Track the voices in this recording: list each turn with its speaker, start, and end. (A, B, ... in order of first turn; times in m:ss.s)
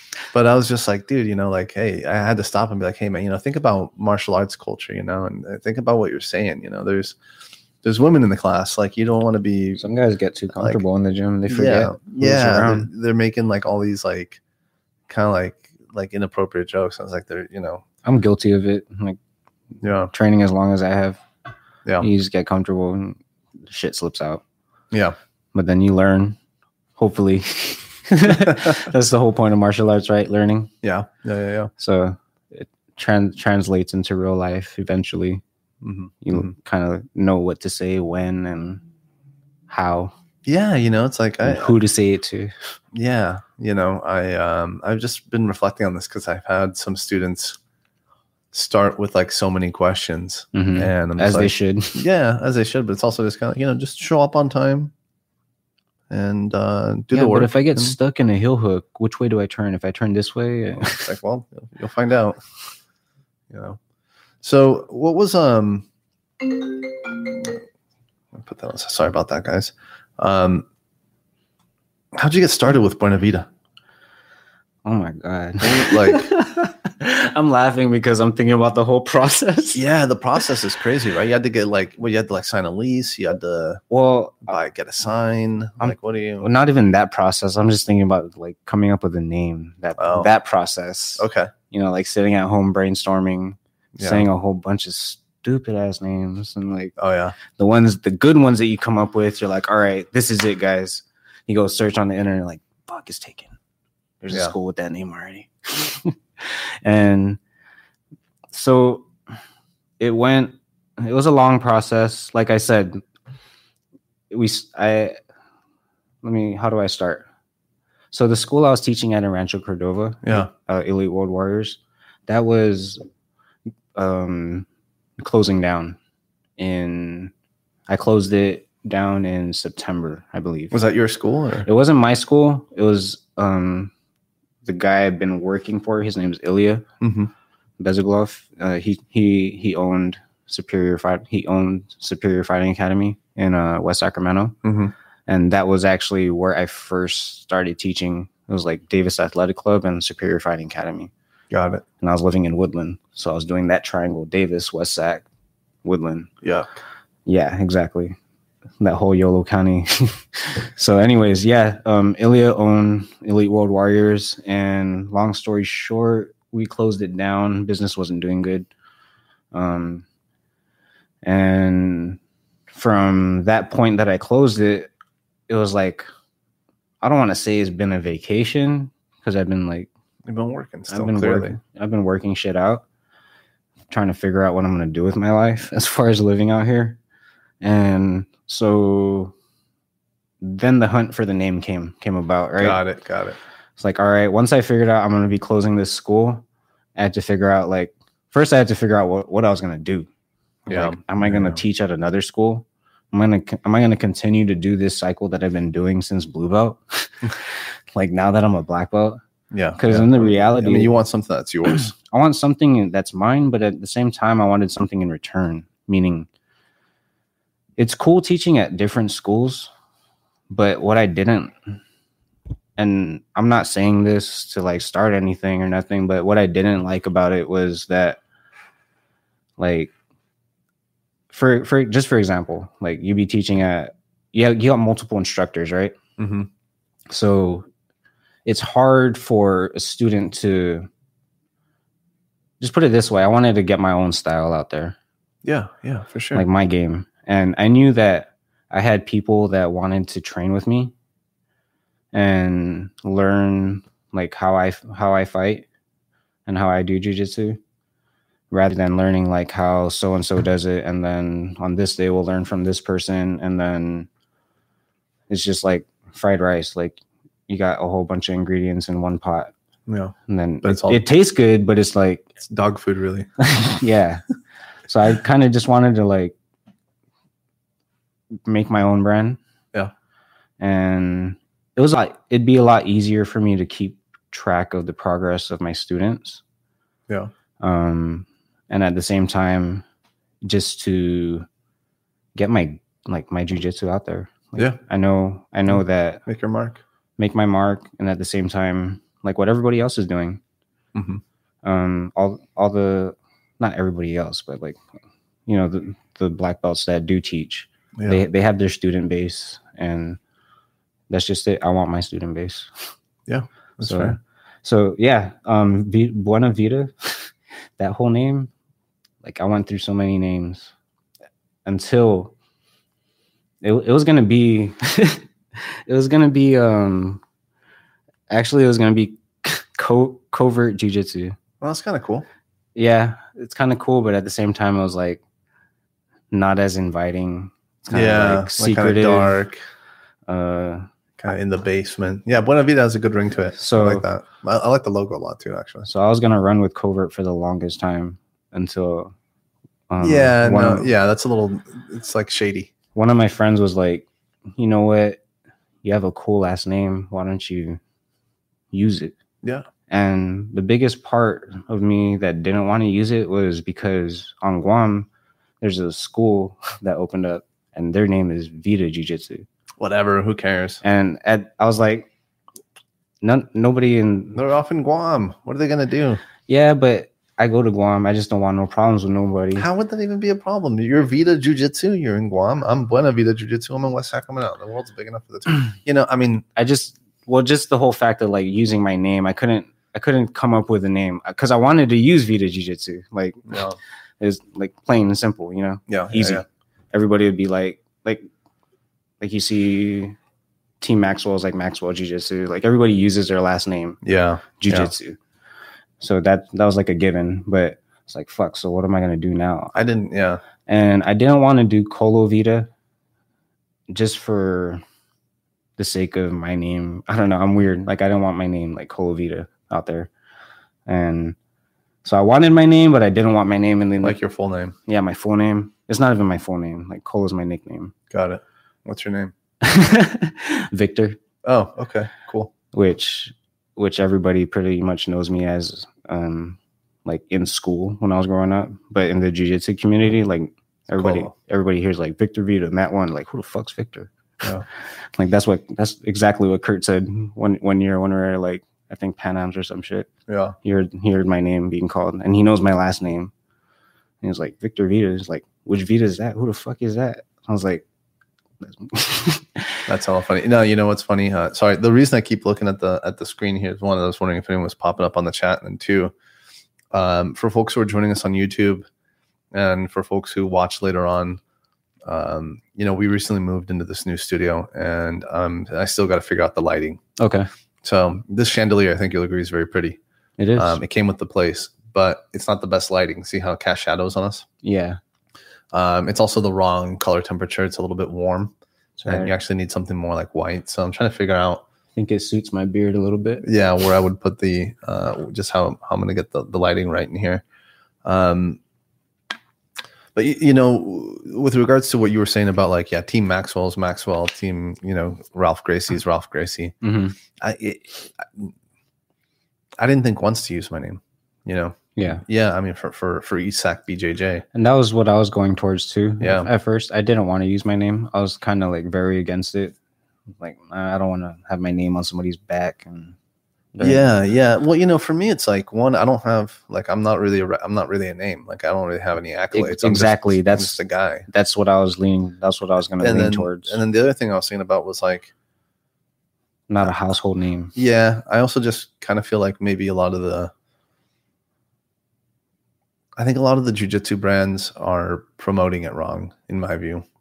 0:00.3-0:07.2 A
0:07.8-0:09.8 A
0:09.8-0:12.9 B
0:10.5-0:10.8 A
0:11.5-0:14.4 A
0:15.1-0:17.8 A
0:18.0-0:19.2 B
0:19.8-0:20.1 A
0:20.1-0:21.2 B
0:22.0-0:24.4 B
0:25.5-0:26.4 B
0:27.0-0:30.7 B
0:30.8-0:31.7 A
0:31.8-0:35.4 B
0:35.8-0:36.5 A
0:36.2-0:38.8 B
0:39.7-0:40.1 B
0:40.4-0:41.8 A
0:41.4-0:42.5 B
0:42.9-0:47.6 A
0:48.5-0:54.9 A
0:50.5-0:52.0 B
0:56.1-0:58.0 A
0:57.1-1:01.1 B
1:00.9-1:02.4 A
1:03.5-1:03.8 A
1:04.4-1:05.8 A
1:06.4-1:07.6 A
1:08.3-1:10.6 A
1:12.1-1:13.5 A
1:14.8-1:19.8 B
1:15.6-1:16.3 A
1:19.7-1:23.8 A
1:23.9-1:24.5 B
1:24.5-1:26.5 A
1:25.8-1:36.9 B
1:30.0-1:30.3 A
1:31.2-1:31.5 A
1:34.0-1:34.3 A
1:37.0-1:37.4 A
1:37.5-1:43.5 B
1:44.2-1:47.4 B
1:48.5-1:49.1 B
1:50.0-1:53.0 B
1:54.3-1:55.2 B
1:56.2-1:57.3 B
1:58.1-2:03.0 B
2:03.9-2:04.6 B
2:05.2-2:06.0 B
2:06.6-2:07.3 B
2:07.9-2:10.8 B
2:10.7-2:11.7 A
2:11.6-2:13.9 B
2:14.6-2:16.8 B
2:17.0-2:17.3 A
2:17.8-2:24.6 B
2:24.6-2:24.9 A
2:25.3-2:31.1 B
2:31.5-2:31.8 A
2:32.0-2:35.2 B
2:35.8-2:36.3 B
2:36.4-2:36.7 A
2:37.2-2:38.2 B
2:38.8-2:48.7 B
2:49.5-2:50.0 B
2:51.2-2:52.2 B
2:52.7-2:54.9 B
2:55.5-2:56.1 B
2:57.0-2:59.9 B
3:00.3-3:01.6 A
3:00.9-3:02.8 B
3:03.9-3:07.0 B
3:07.6-3:09.3 B
3:10.4-3:12.8 B
3:12.6-3:13.4 A
3:13.8-3:16.4 B
3:17.0-3:20.1 B
3:20.7-3:21.6 A
3:20.7-3:29.2 B
3:29.5-3:31.9 A
3:29.8-3:31.0 B
3:31.8-3:36.3 B
3:37.8-3:39.7 B
3:40.5-3:41.8 B
3:42.8-3:48.2 B
3:49.6-3:49.9 B
3:51.3-3:56.0 B
3:56.2-3:56.5 A
3:57.1-3:57.7 B
3:58.4-4:00.9 B
4:02.6-4:05.0 B
4:05.4-4:06.4 A
4:06.3-4:10.9 B
4:12.1-4:15.6 B
4:16.4-4:17.6 B
4:18.5-4:24.1 B
4:25.3-4:29.5 B
4:29.9-4:31.0 A
4:30.3-4:32.3 B
4:32.5-4:33.3 A
4:33.4-4:34.2 B
4:34.9-4:36.3 B
4:38.4-4:39.4 B
4:40.6-4:46.4 B
4:47.6-4:49.8 B
4:50.4-4:51.4 B
4:52.3-4:56.2 B
4:55.7-4:56.8 A
4:57.2-5:00.4 B
5:00.9-5:01.2 A
5:01.6-5:04.8 B
5:05.5-5:10.2 B
5:11.1-5:12.7 B
5:13.3-5:14.2 A
5:13.8-5:18.5 B
5:19.2-5:20.7 B
5:21.6-5:22.3 B
5:23.6-5:27.2 B
5:28.3-5:31.4 B
5:31.6-5:32.2 A
5:32.8-5:35.2 B
5:36.3-5:39.4 B
5:37.9-5:39.6 A
5:40.3-5:40.8 B
5:41.2-5:45.9 A
5:43.6-5:44.0 B
5:45.8-5:49.1 B
5:49.9-5:50.9 B
5:50.0-5:52.7 A
5:52.9-5:55.2 B
5:55.8-5:57.8 B
5:58.7-5:59.2 B
5:59.9-6:05.1 B
6:05.6-6:09.4 B
6:09.8-6:10.8 A
6:10.8-6:12.1 B
6:13.2-6:14.4 B
6:14.3-6:16.2 A
6:16.4-6:19.7 B
6:19.5-6:26.4 A
6:26.6-6:33.6 B
6:33.5-6:33.8 A
6:34.2-6:38.3 B
6:35.9-6:36.4 A
6:39.2-6:40.2 B
6:40.8-6:44.0 B
6:44.0-6:44.9 A
6:44.6-6:45.2 B
6:46.0-6:49.7 B
6:49.7-6:50.4 A
6:50.6-6:52.7 B
6:53.9-6:54.8 B
6:55.8-7:00.1 B
7:00.8-7:01.4 B
7:02.0-7:04.2 B
7:04.0-7:04.7 A
7:04.9-7:07.9 B
7:08.1-7:09.3 A
7:09.6-7:11.2 B
7:11.4-7:12.5 A
7:12.7-7:24.4 B
7:21.0-7:21.3 A
7:25.2-7:30.1 B
7:30.3-7:30.5 A
7:30.6-7:33.3 B
7:34.2-7:37.8 B
7:38.6-7:39.9 B
7:39.9-7:46.1 A
7:46.9-7:48.8 A
7:49.5-7:51.4 A
7:52.0-7:57.0 A
7:57.2-7:57.5 B
7:57.8-8:00.0 A
8:00.4-8:00.8 B
8:00.6-8:04.4 A
8:04.6-8:05.0 B
8:05.7-8:08.5 A
8:09.0-8:09.3 B
8:09.1-8:11.6 A
8:12.0-8:13.5 B
8:13.4-8:17.4 A
8:18.0-8:18.6 A
8:20.1-8:26.8 A
8:26.8-8:27.2 B
8:27.4-8:28.5 A
8:29.8-8:34.4 A
8:32.0-8:32.2 B
8:34.5-8:39.7 B
8:36.2-8:36.5 A
8:40.4-8:43.2 B
8:43.7-8:44.0 B
8:43.8-8:51.2 A
8:49.5-8:53.8 B
8:53.0-8:55.3 A
8:56.7-8:57.7 B
8:57.7-9:00.5 A
9:03.2-9:07.0 A